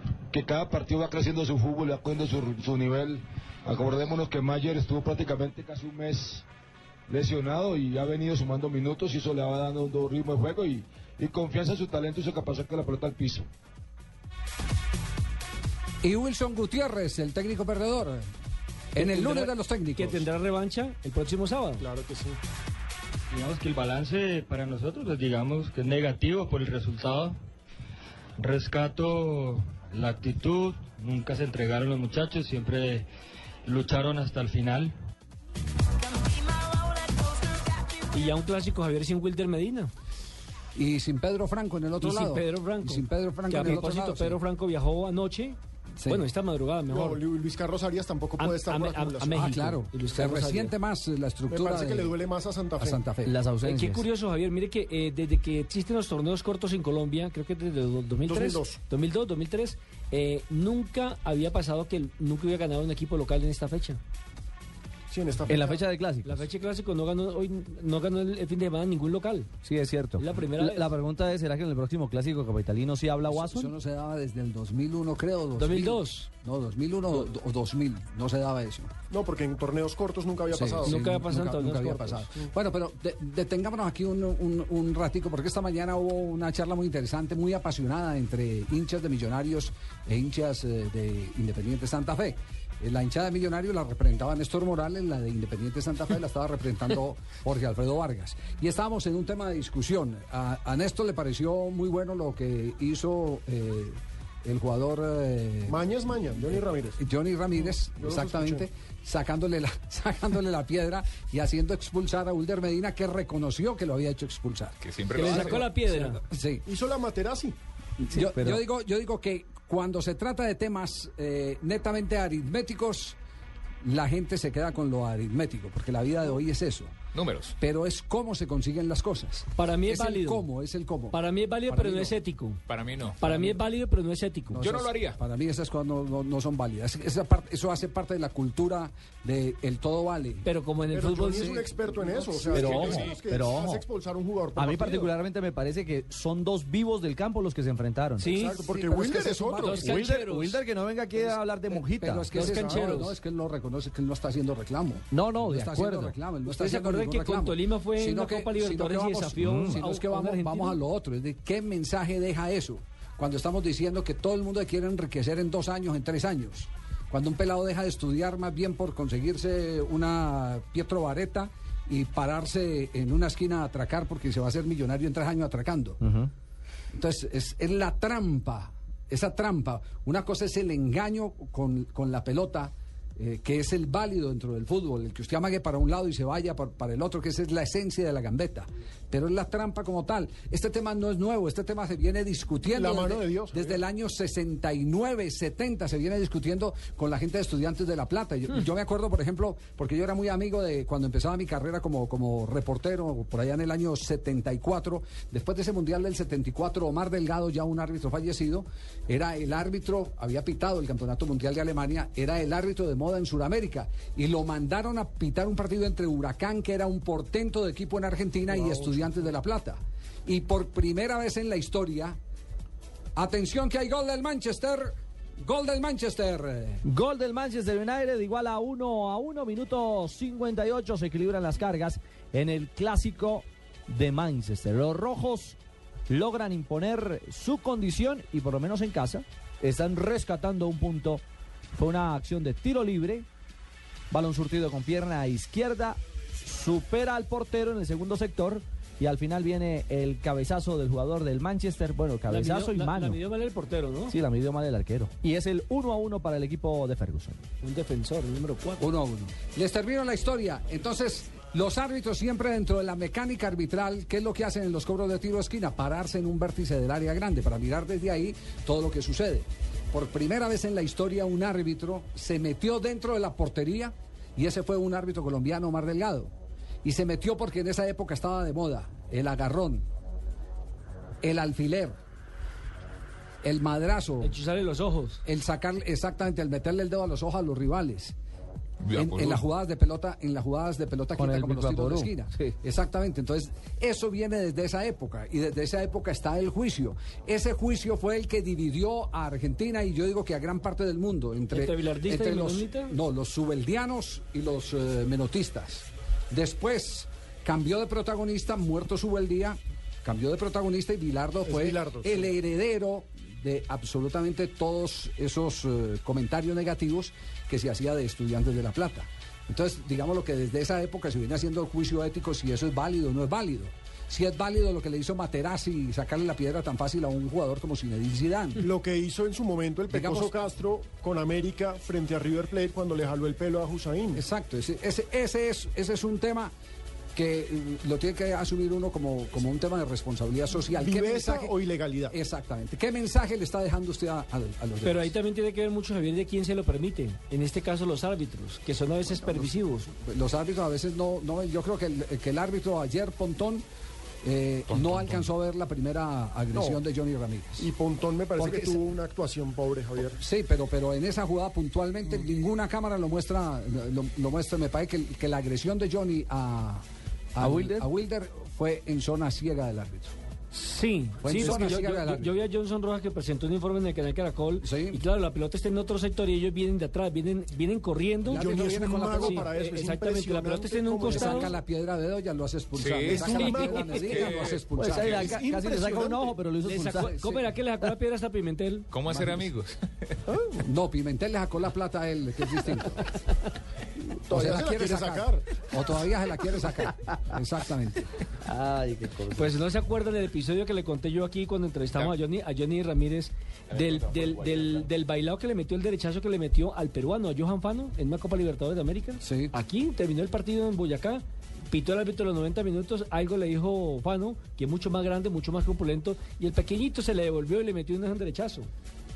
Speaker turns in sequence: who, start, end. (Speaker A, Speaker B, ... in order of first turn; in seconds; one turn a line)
Speaker A: 0.3-6.5
Speaker A: 7.1-13.5
Speaker B: 16.0-18.3
Speaker B: 19.0-20.3
Speaker C: 19.0-21.9
Speaker D: 21.8-22.4
Speaker E: 23.3-27.4
Speaker E: 28.4-33.1
Speaker E: 33.6-35.0
Speaker C: 38.1-39.9
Speaker B: 40.8-44.4
Speaker C: 42.0-47.2
Speaker B: 46.0-46.3
Speaker D: 46.9-49.5
Speaker C: 48.4-50.8
Speaker B: 49.3-52.2
Speaker D: 51.5-53.0
Speaker B: 52.8-53.3
Speaker F: 53.2-54.0
Speaker C: 53.6-64.0
Speaker D: 58.2-58.8
Speaker D: 65.1-65.8
Speaker F: 65.5-66.4
Speaker C: 66.2-69.5
Speaker F: 69.6-73.7
Speaker C: 70.2-70.9
Speaker B: 73.3-78.9
Speaker C: 75.6-76.3
Speaker D: 79.1-81.0
Speaker B: 80.5-105.8
Speaker C: 80.8-82.3
Speaker D: 105.7-107.0
Speaker B: 107.0-114.8
Speaker D: 107.6-108.7
Speaker G: 114.8-115.7
Speaker C: 115.1-116.2
Speaker B: 115.3-115.7
Speaker B: 116.2-116.7
Speaker D: 116.7-117.6
Speaker B: 118.0-123.2
Speaker F: 118.1-118.6
Speaker B: 123.8-127.0
Speaker G: 127.2-127.5
Speaker B: 127.6-132.2
Speaker C: 129.6-130.5
Speaker C: 131.1-132.6
Speaker G: 132.7-133.2
Speaker C: 133.2-134.6
Speaker B: 133.2-133.6
Speaker B: 134.5-140.5
Speaker G: 134.6-135.2
Speaker C: 140.4-141.6
Speaker D: 140.9-145.2
Speaker C: 142.5-143.1
Speaker F: 142.5-143.8
Speaker G: 142.8-143.2
Speaker F: 144.6-148.3
Speaker C: 148.2-148.6
Speaker D: 148.2-150.2
Speaker B: 148.6-150.0
Speaker C: 149.6-150.6
Speaker F: 149.7-152.4
Speaker B: 151.7-176.0
Speaker C: 152.3-153.2
Speaker D: 152.4-152.9
Speaker F: 155.1-156.2
Speaker C: 156.5-160.8
Speaker F: 159.4-159.8
Speaker B: 176.9-222.2
Speaker D: 192.7-193.8
Speaker F: 218.6-218.9
Speaker B: 223.2-226.8
Speaker F: 226.8-235.6
Speaker F: 236.1-241.2
Speaker F: 241.7-243.3
Speaker F: 244.1-253.2
Speaker C: 252.3-254.2
Speaker F: 254.1-257.4
Speaker C: 257.6-258.9
Speaker B: 258.8-276.3
Speaker B: 276.8-279.8
Speaker B: 281.2-282.0
Speaker B: 283.4-284.4
Speaker C: 284.2-285.2
Speaker B: 285.2-288.1
Speaker G: 288.8-289.4
Speaker B: 288.9-328.6
Speaker F: 291.2-292.5
Speaker C: 301.5-302.9
Speaker D: 311.5-312.3
Speaker D: 328.6-334.2
Speaker B: 329.9-330.3
Speaker B: 334.1-336.5
Speaker B: 337.1-341.6
Speaker D: 340.8-342.1
Speaker B: 342.1-345.1
Speaker C: 344.8-349.9
Speaker B: 349.1-353.6
Speaker B: 354.2-357.7
Speaker G: 354.7-355.3
Speaker D: 356.5-356.8
Speaker D: 357.6-360.2
Speaker B: 358.4-358.8
Speaker B: 360.1-366.8
Speaker B: 367.4-370.1
Speaker F: 367.4-367.9
Speaker C: 370.5-378.5
Speaker B: 371.2-372.3
Speaker D: 371.3-371.8
Speaker B: 374.6-375.0
Speaker B: 378.3-379.5
Speaker D: 378.3-381.5
Speaker C: 379.1-381.5
Speaker B: 381.1-385.4
Speaker G: 382.7-385.3
Speaker D: 383.1-384.3
Speaker C: 383.4-383.8
Speaker F: 384.8-387.4
Speaker D: 385.1-386.4
Speaker C: 386.6-388.9
Speaker B: 386.9-387.4
Speaker G: 388.9-389.8
Speaker B: 389.1-389.5
Speaker D: 390.3-390.6
Speaker B: 390.6-393.0
Speaker D: 394.2-395.5
Speaker B: 394.3-398.1
Speaker F: 398.5-399.5
Speaker C: 399.3-418.7
Speaker G: 403.7-404.9
Speaker B: 409.2-409.5